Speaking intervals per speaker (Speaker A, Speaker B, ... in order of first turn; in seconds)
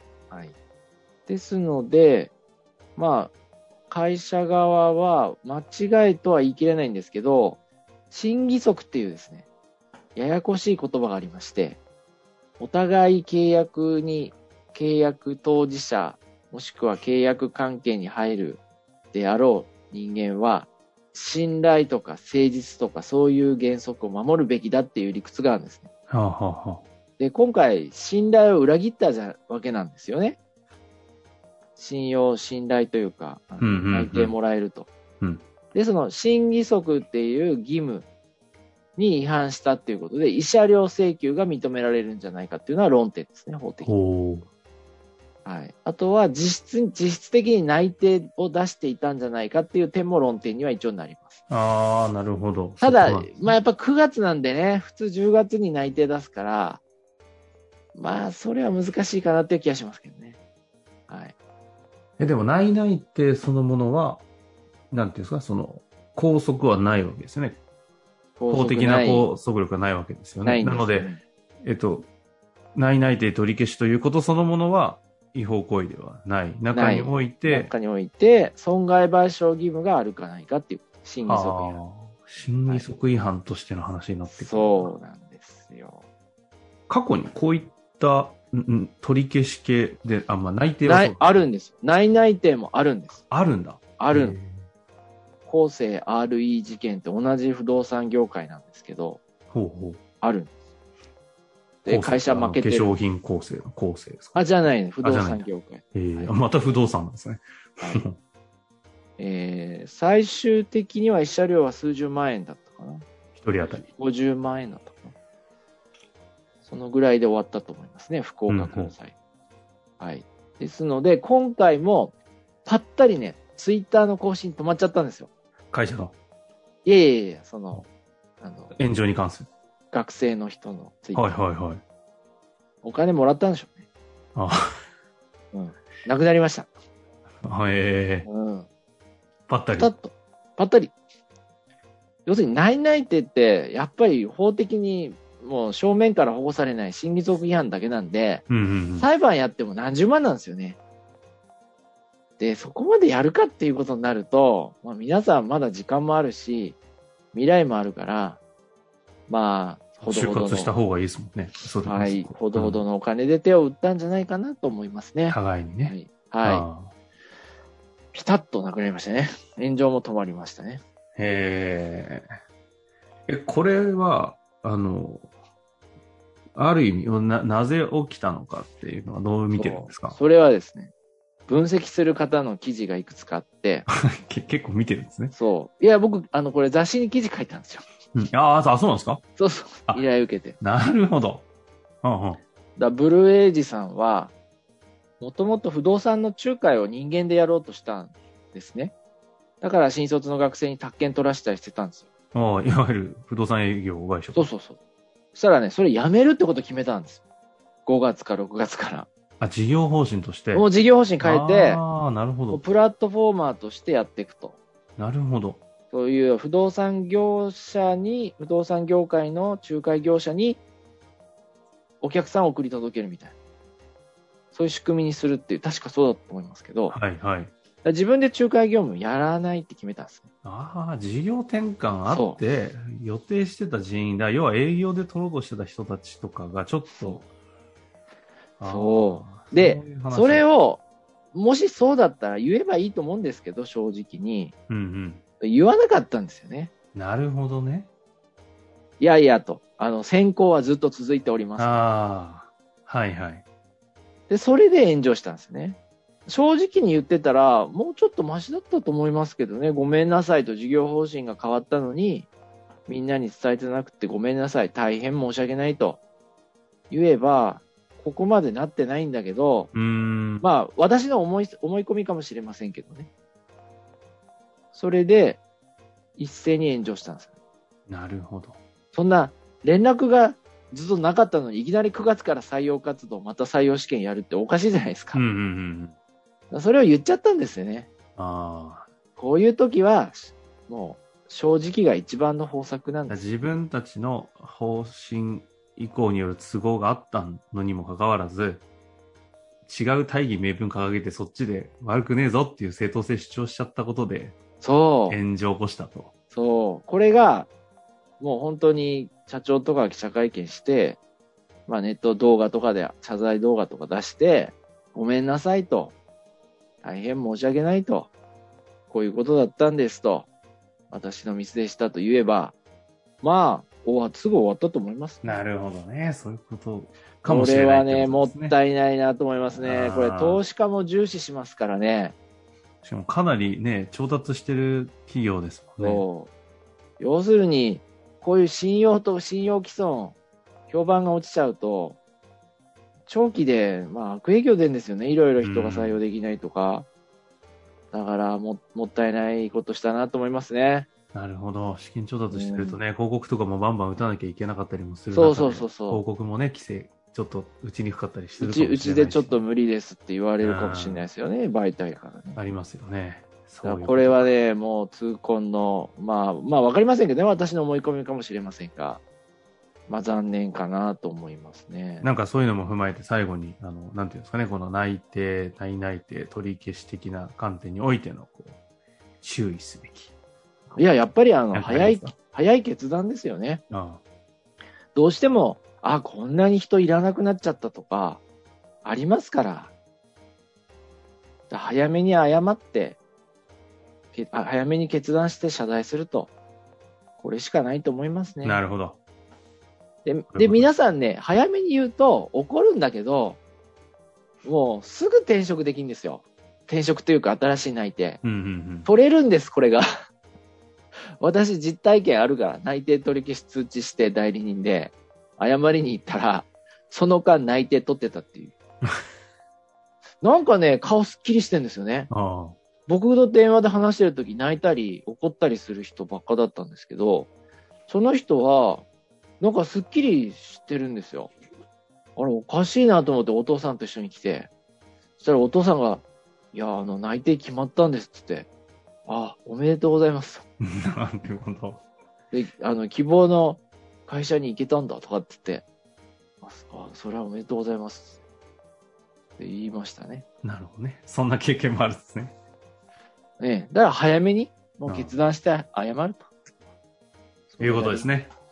Speaker A: 1.3-2.3, 3.0-3.3, 3.9-9.5, 10.1-11.8, 12.6-18.6, 19.1-25.9, 27.2-30.4, 31.8-34.9, 35.7-38.1, 39.0-43.9, 45.4-51.4, 52.8-56.8, 57.9-60.4, 61.1-61.3, 68.4-69.3, 70.4-71.2, 76.7-81.8, 84.3-86.0, 90.8-93.2, 94.0-94.4, 95.5-99.2, 100.2-100.5, 101.8-102.9, 104.3-106.4, 109.2-113.0, 113.6-115.1, 116.6-119.1, 120.0-122.1, 122.6-125.3, 126.8-127.9, 128.4-128.8, 129.9-131.4, 132.8-133.8, 135.5-136.7, 138.2-138.7, 139.8-140.9, 142.2-150.8, 152.4-156.8, 157.3-158.4, 159.3-160.7, 161.8-166.7, 168.1-170.8, 179.5-180.9, 181.5-183.8, 185.3-187.8, 189.4-190.6, 192.8-194.3, 195.2-198.9, 199.6-202.1, 204.3-204.8, 205.3-207.2, 207.8-209.1, 210.5-211.8, 212.5-214.6, 215.9-220.6, 222.0-223.3, 224.5-227.0, 227.8-230.3, 232.1-232.4, 238.6-240.8, 241.3-244.5, 245.4-246.7, 249.0-251.7, 254.3-262.3, 262.9-266.0, 266.9-269.7, 270.4-273.1, 274.7-275.4, 276.2-277.3, 278.9-285.2, 286.5-287.9, 289.1-293.2, 304.6-305.2, 306.3-307.5, 308.2-311.0, 311.7-315.9, 316.8-318.1, 318.9-320.3, 320.9-322.5, 323.2-325.4, 327.2-332.1, 335.8-336.3, 337.0-340.1, 340.7-342.0, 343.1-346.9, 347.9-350.9, 352.3-352.8, 355.1-356.0, 358.4-362.4, 363.6-369.0, 369.9-372.1, 380.8-383.6, 384.9-388.2, 388.8-389.7, 391.5-393.0, 394.1-396.3, 397.2-398.6, 400.0-403.4, 404.4-408.2, 408.8-409.8, 411.2-418.5, 420.2-422.1, 422.9-427.3, 427.9-428.9, 429.4-431.3, 432.1-434.5, 435.2-438.5, 439.1-440.4, 442.3-445.6, 446.4-448.2, 449.4-450.2, 453.4-456.3, 457.5-458.1
Speaker B: 26.1-26.8, 33.6-34.4, 43.8-44.5, 51.5-53.5, 62.2-64.2, 64.9-67.6, 68.5-71.1, 71.6-72.1, 72.8-77.7, 81.2-84.9, 86.9-91.4, 93.3-94.6, 99.5-100.0, 101.8-104.4, 105.0-108.2, 113.3-113.8, 118.5-118.9, 125.7-126.1, 128.7-129.5, 131.1-131.8, 134.3-134.8, 137.4-138.3, 139.5-139.9, 148.5-149.1, 160.0-162.8, 165.3-166.9, 171.2-172.2, 173.3-175.3, 176.6-180.2, 184.1-185.3, 188.1-189.2, 190.6-191.4, 192.0-192.4, 202.3-204.5, 209.4-210.7, 211.2-212.6, 215.0-215.6, 226.9-227.5, 230.4-237.3, 238.6-240.4, 244.7-245.2, 246.9-247.9, 251.6-253.4, 269.7-270.5, 277.9-278.6, 285.1-285.9, 288.2-288.9, 293.1-298.6, 299.6-304.4, 305.1-306.1, 325.2-328.6, 329.5-330.4, 332.8-336.0, 345.4-346.0, 351.1-359.4, 360.4-361.1, 362.4-364.3, 372.0-378.6, 379.2-380.1, 381.5-382.1, 383.7-384.0, 398.4-399.0, 400.3-400.7, 408.2-408.9, 422.1-422.6, 440.7-441.8, 450.4-452.3, 454.9-455.1, 457.6-458.3